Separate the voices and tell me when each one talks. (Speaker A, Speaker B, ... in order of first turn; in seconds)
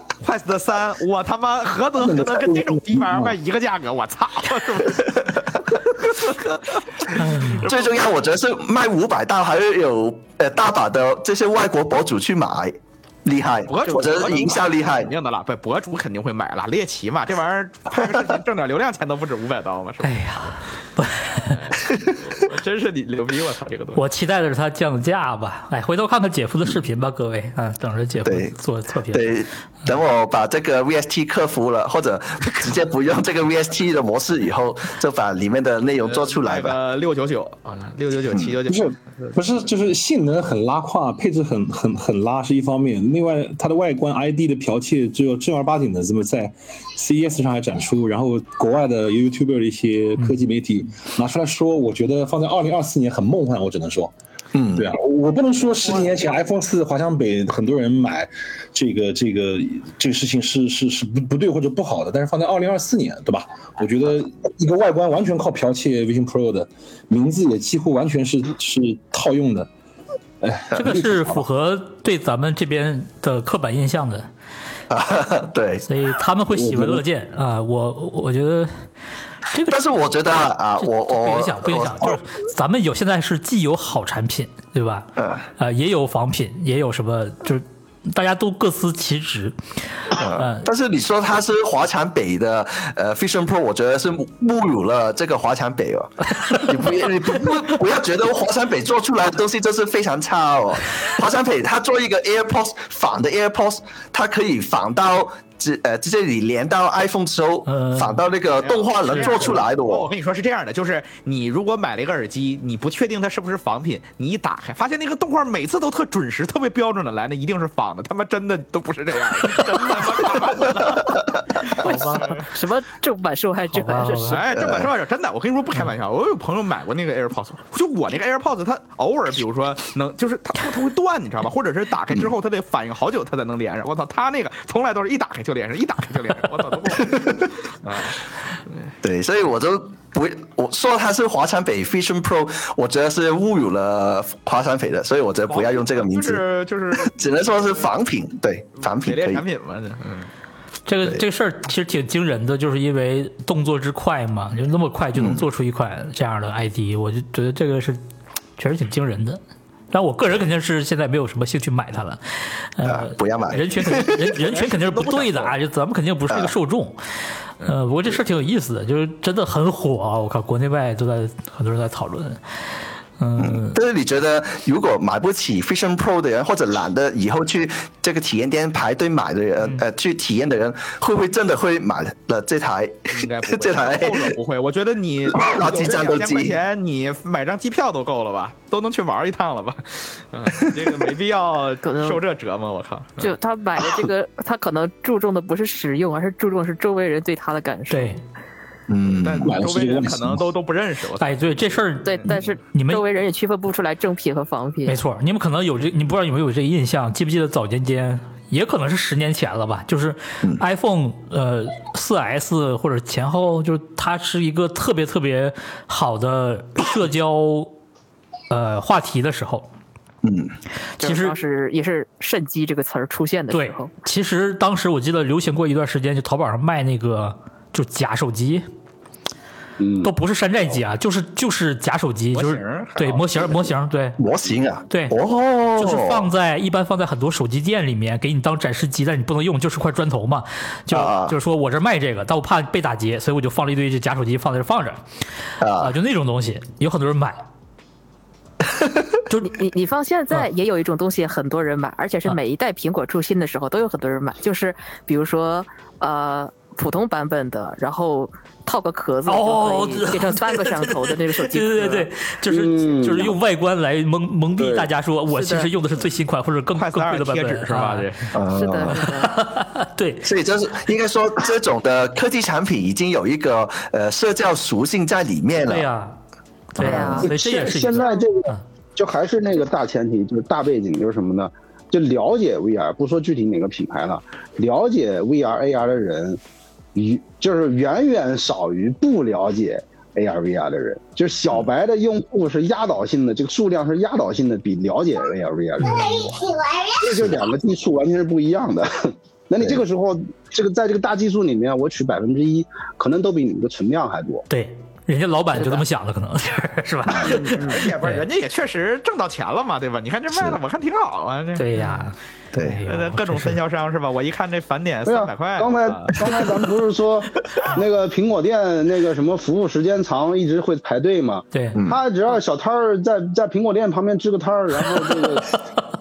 Speaker A: 0.2-7.9, 13.7-20.2, 21.4-24.0, 36.0-39.4, 108.6-122.5, 124.2-138.2, 145.5-147.8, 148.8-150.3, 163.9-165.5, 183.1-193.3, 199.2-201.6, 232.3-233.6, 266.7-268.4, 307.1-312.0, 312.9-316.3
Speaker B: 2.0-3.3, 38.7-54.1, 54.7-69.7, 70.4-71.3, 76.5-77.0, 199.4-200.4
Speaker C: 7.2-7.6, 20.0-21.6, 23.9-29.4, 70.7-74.3, 75.8-78.7, 79.5-79.8, 80.8-89.5, 90.1-90.7, 107.7-108.2, 121.8-122.2, 123.7-124.4, 150.9-158.0, 158.6-159.4, 159.9-167.0, 167.6-172.4, 173.2-173.8, 197.9-198.2, 201.2-203.0, 204.8-217.7, 218.5-219.7, 221.0-221.4, 223.5-228.7, 230.0-234.2, 234.9-235.2, 235.8-245.0, 245.7-247.4, 259.3-268.1, 268.9-270.3, 275.7-276.2, 276.7-278.6, 304.5-308.2, 311.6-313.6, 321.5-321.8
Speaker D: 7.6-15.1, 28.2-28.5, 29.1-36.8, 54.5-54.9, 74.9-75.8, 79.7-82.2, 85.2-85.4, 90.2-110.1, 124.5-124.9, 137.0-137.4, 139.0-146.4, 146.9-149.4, 155.2-155.4, 162.8-164.1, 173.4-184.3, 185.3-186.6, 198.9-199.5, 220.2-220.5, 234.2-236.3, 240.9-241.3, 245.6-245.9, 268.3-269.0, 270.2-275.9, 312.5-312.8, 321.7-322.0
Speaker E: 121.7-124.5, 191.8-192.2, 193.2-198.2, 202.0-205.0, 221.0-223.9, 249.4-262.1, 265.3-265.7, 268.5-269.4, 276.8-277.3, 305.5-305.8
Speaker F: 229.8-230.1, 262.5-263.4, 264.6-264.9, 276.8-286.4, 286.9-304.5, 315.1-325.6